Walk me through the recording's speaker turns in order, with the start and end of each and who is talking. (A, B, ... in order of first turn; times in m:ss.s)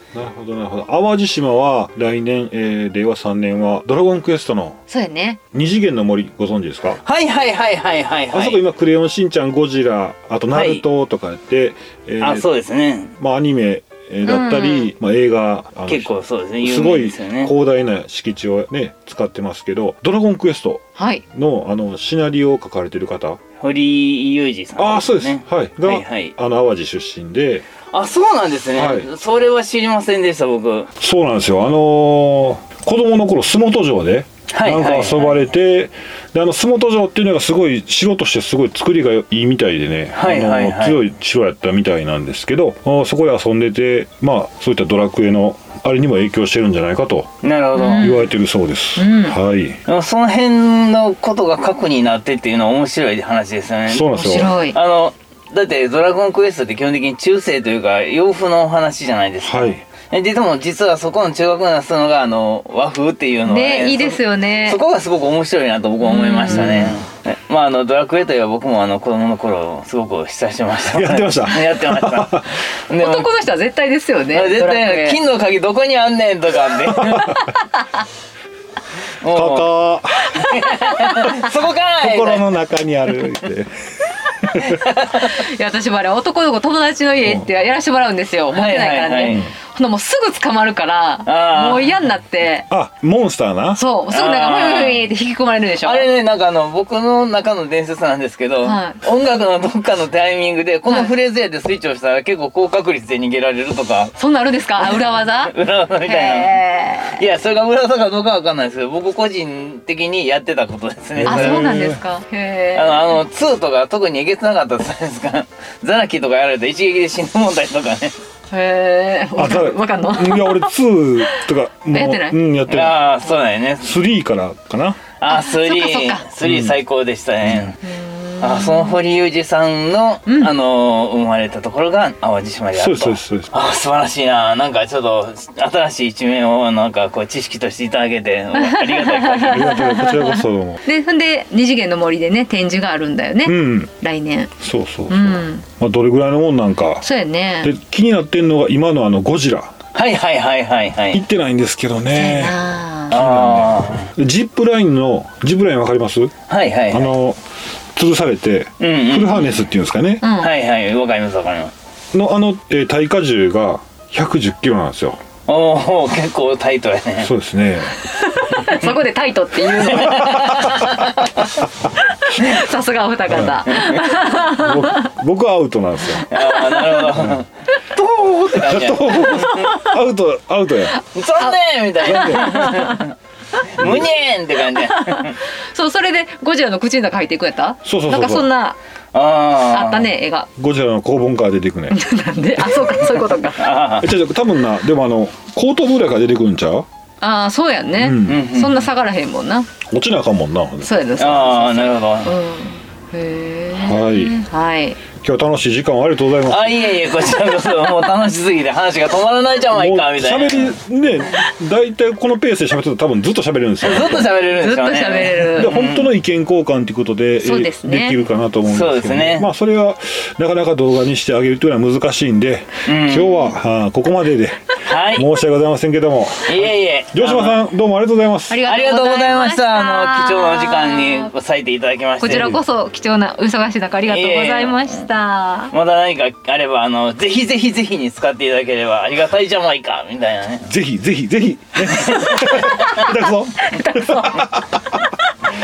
0:00.1-0:04.8 A
0:04.9-0:05.4 B
0:05.5-0:07.0 A
0:07.0-0:08.6 C
0:08.3-0:12.5 A
0:10.5-0:10.8 C
0:12.2-0:13.2 C
0:13.2-0:23.4 A
0:14.2-0:14.9 B
0:15.9-0:17.5 C
0:21.0-0:21.2 B
0:23.6-0:26.4 C
0:24.8-0:27.6 A
0:27.9-0:30.9 C
0:28.7-0:29.1 A
0:31.0-0:47.3 A
0:34.5-0:35.4 C
0:40.1-0:41.1 C
0:47.4-0:48.2 C
0:47.7-0:48.3 B
0:48.0-0:49.8 A
0:49.0-0:49.4 B
0:49.8-1:13.3 C
0:53.9-0:54.6 A
0:54.1-0:54.8 B
0:59.4-0:59.8 A
1:03.4-1:04.8 B
1:06.0-1:07.0 B
1:06.5-1:06.9 A
1:10.8-1:12.5 A
1:12.9-1:15.2 B
1:14.3-1:17.4 C
1:16.9-1:17.3 A
1:17.3-1:17.9 B
1:19.2-1:19.7 C
1:19.2-1:20.4 A
1:20.3-1:21.4 B
1:20.5-1:22.4 C
1:22.0-1:24.8 A
1:24.6-1:25.4 C
1:25.2-1:32.7 B
1:28.5-1:29.4 C
1:29.3-1:29.5 A
1:31.2-1:32.0 C
1:32.7-1:33.8 A
1:33.8-1:36.1 B
1:34.1-1:35.1 C
1:35.8-1:44.1 C
1:38.6-1:39.0 B
1:40.9-1:41.1 B
1:44.2-1:45.5 B
1:44.8-1:51.7 C
1:46.0-1:47.2 B
1:51.1-1:52.0 A
1:51.2-1:53.2 B
1:52.7-1:58.2 C
1:58.5-2:02.4 B
1:59.4-2:03.1 A
2:02.6-2:04.0 C
2:03.8-2:05.0 A
2:05.2-2:07.9 C
2:05.3-2:06.2 B
2:06.4-2:06.8 A
2:07.8-2:09.0 B
2:08.4-2:19.6 C
2:10.2-2:10.5 B
2:12.7-2:13.5 A
2:18.5-2:24.5 B
2:19.5-2:20.8 A
2:23.4-2:23.9 A
2:24.6-2:27.0 A
2:25.1-2:25.6 B
2:27.0-2:27.7 B
2:27.6-2:29.7 A
2:29.9-2:31.2 C
2:31.1-2:36.3 A
2:32.1-2:33.2 B
2:33.1-2:34.1 C
2:36.5-2:37.1 C
2:36.9-2:37.4 A
2:37.9-2:40.3 A
2:38.8-2:39.5 C
2:40.2-2:40.5 B
2:40.3-2:41.7 C
2:42.1-2:45.2 A
2:45.5-2:47.3 C
2:47.2-2:48.0 A
2:48.1-2:51.4 B
2:48.7-2:49.0 C
2:49.7-2:51.6 C
2:52.1-2:55.1 B
2:53.3-2:53.6 A
2:53.6-2:54.0 C
2:54.4-2:56.3 A
2:56.2-2:59.7 C
2:56.3-2:57.2 B
2:58.5-3:01.0 A
2:59.4-2:59.9 B
3:01.1-3:03.1 C
3:01.4-3:03.1 B
3:02.0-3:02.4 A
3:03.8-3:05.4 C
3:03.8-3:04.1 A
3:04.7-3:08.8 B
3:07.8-3:08.5 A
3:09.1-3:10.1 C
3:09.6-3:10.5 B
3:10.6-3:12.0 A
3:11.9-3:13.7 B
3:13.1-3:14.1 C
3:14.0-3:16.9 A
3:17.2-3:19.8 B
3:18.0-3:18.4 A
3:18.2-3:18.9 C
3:19.8-3:20.9 A
3:20.8-3:25.1 B
3:21.2-3:22.3 C
3:23.8-3:24.4 A
3:25.1-3:26.8 A
3:26.4-3:30.7 C
3:29.7-3:34.3 A
3:33.8-3:36.1 C
3:34.5-3:35.8 B
3:35.5-3:48.6 A
3:37.4-3:38.2 B
3:38.7-3:39.5 C
3:42.8-3:43.4 C
3:44.8-3:45.2 C
3:46.4-3:47.6 C
3:48.5-3:51.3 B
3:48.6-3:52.4 C
3:52.2-3:55.7 B
3:52.3-3:52.6 A
3:54.0-3:55.1 C
3:55.7-4:00.7 C
4:00.6-4:05.0 A
4:01.9-4:04.6 B